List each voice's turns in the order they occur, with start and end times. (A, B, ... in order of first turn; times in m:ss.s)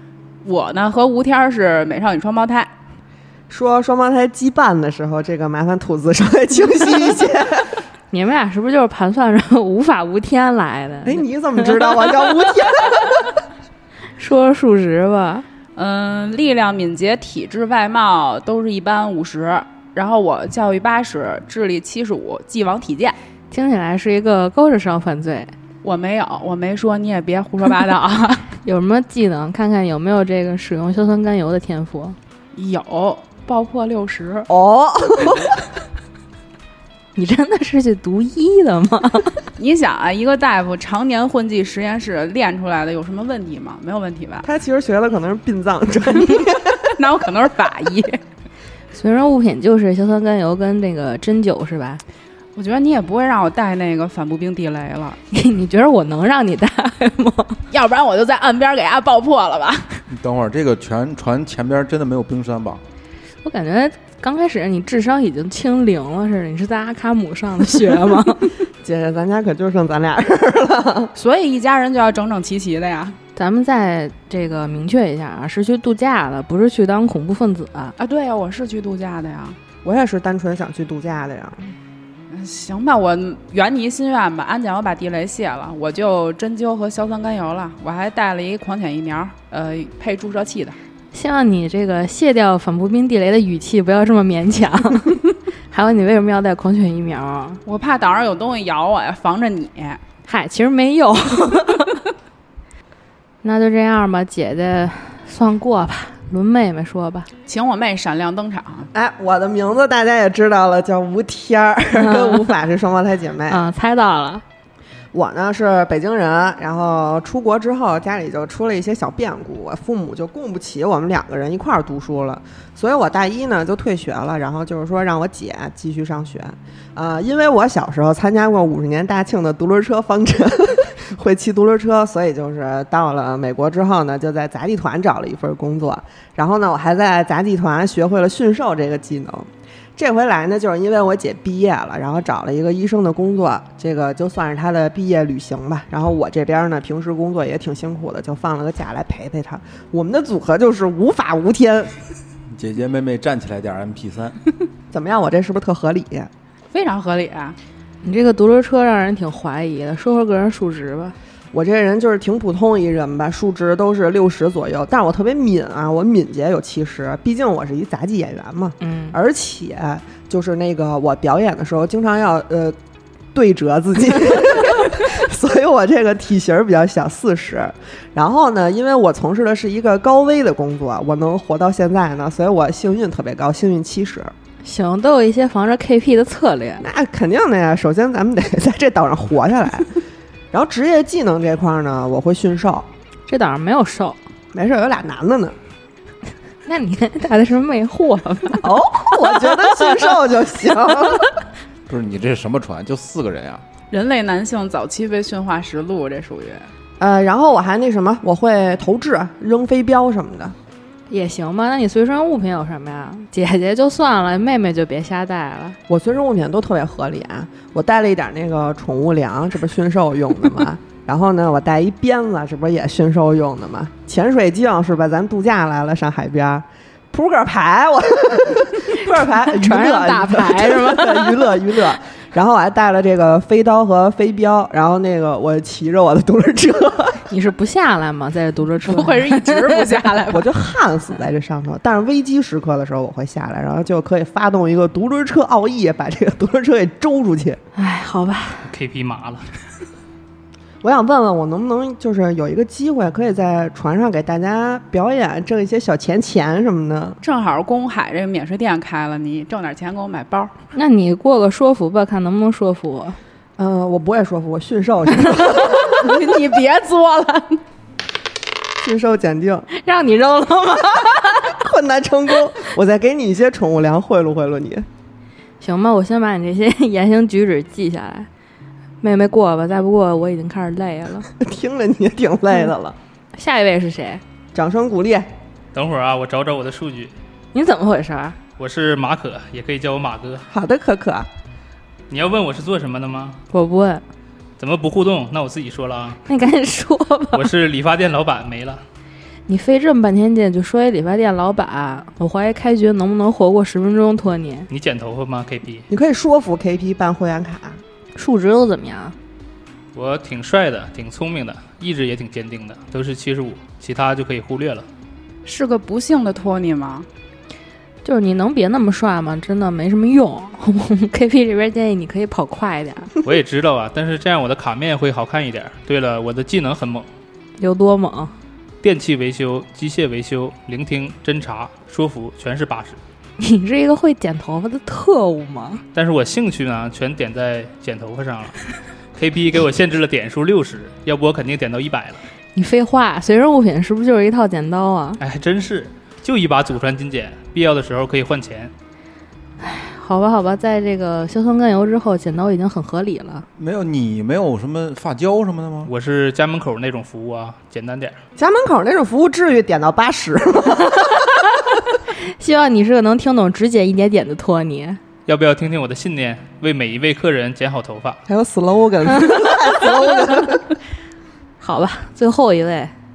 0:00.4-0:02.7 A
0:03.5-0:07.8 B
0:08.1-0:11.7 C
0:11.0-0:13.3 B
0:14.2-0:15.4 C
0:15.7-0:23.2 A
0:23.5-0:25.5 C
0:25.8-0:28.5 A
0:28.6-0:32.2 C
0:32.5-0:34.5 A
0:34.5-0:35.5 B
0:37.2-0:39.5 C
0:39.6-0:44.4 A
0:44.4-0:46.9 B
0:46.9-0:48.2 A
0:48.9-0:52.0 C
0:52.5-0:55.2 A
0:55.3-0:57.6 C
0:57.7-1:00.0 A
1:00.1-1:02.8 D
1:03.4-1:08.5 C
1:08.8-1:11.1 B
1:11.1-1:13.2 A
1:13.4-1:18.0 C
1:18.0-1:19.6 A
1:19.8-1:21.7 B
1:22.3-1:30.8 A
1:31.1-1:35.2 C
1:35.7-1:37.6 C
1:37.6-1:40.0 A
1:40.2-1:42.0 C
1:43.4-1:47.3 C
1:47.4-1:48.9 A
1:48.9-1:53.6 B
1:51.9-1:52.4 C
1:53.5-1:54.4 C
1:55.1-2:32.0 B
2:32.5-2:34.4 D
2:34.9-2:36.3 B
2:36.7-2:37.6 A
2:38.0-2:41.1 C
2:41.5-2:52.8 B
2:48.8-2:49.2 C
2:53.3-3:04.3 B
3:04.6-3:06.8 C
3:06.8-3:10.0 B
3:10.5-3:12.9 B
3:13.3-3:14.2 C
3:14.5-3:15.6 B
3:16.6-3:19.0 C
3:18.6-3:21.2 B
3:21.9-3:23.6 D
3:23.9-3:26.7 A
3:27.0-3:30.5 B
3:31.1-3:35.8 C
3:35.9-3:57.3 B
3:49.3-3:51.5 C
3:57.3-3:59.8 C
3:58.8-4:00.5 A
4:00.3-4:07.6 B
4:07.8-4:08.7 C
4:08.6-4:09.5 E
4:10.8-4:17.2 B
4:17.2-4:20.5 A
4:20.7-4:23.2 C
4:23.6-4:26.1 B
4:25.5-4:27.6 A
4:28.8-4:29.7 B
4:29.7-4:31.5 C
4:31.4-4:34.8 B
4:35.6-4:38.3 C
4:39.0-4:41.3 C
4:41.4-4:43.0 B
4:43.3-4:44.2 C
4:44.5-4:45.3 B
4:45.7-4:47.1 E
4:47.5-4:48.4 C
4:48.6-4:50.4 E
4:50.5-4:51.3 B
4:52.1-4:53.4 E
4:53.5-4:54.0 C
4:54.6-4:56.2 E
4:56.2-4:57.5 C
4:57.3-4:58.8 E
4:59.5-5:04.7 C
5:04.7-5:05.9 E
5:05.9-5:07.8 B
5:08.2-5:09.2 C
5:09.9-5:14.9 E
5:15.4-5:17.1 A
5:18.0-5:23.1 C
5:23.2-5:27.1 E
5:27.6-5:28.3 C
5:28.8-5:33.0 E
5:33.4-5:35.8 C
5:35.9-5:38.6 E
5:39.1-5:42.2 E
5:42.5-5:45.2 C
5:45.2-5:48.7 E
5:49.6-5:53.4 C
5:53.6-5:55.9 D
5:55.8-5:58.2 E
5:58.4-6:01.3 B
6:02.2-6:05.0 C
6:05.2-6:08.2 E
6:08.3-6:10.6 B
6:11.6-6:12.9 C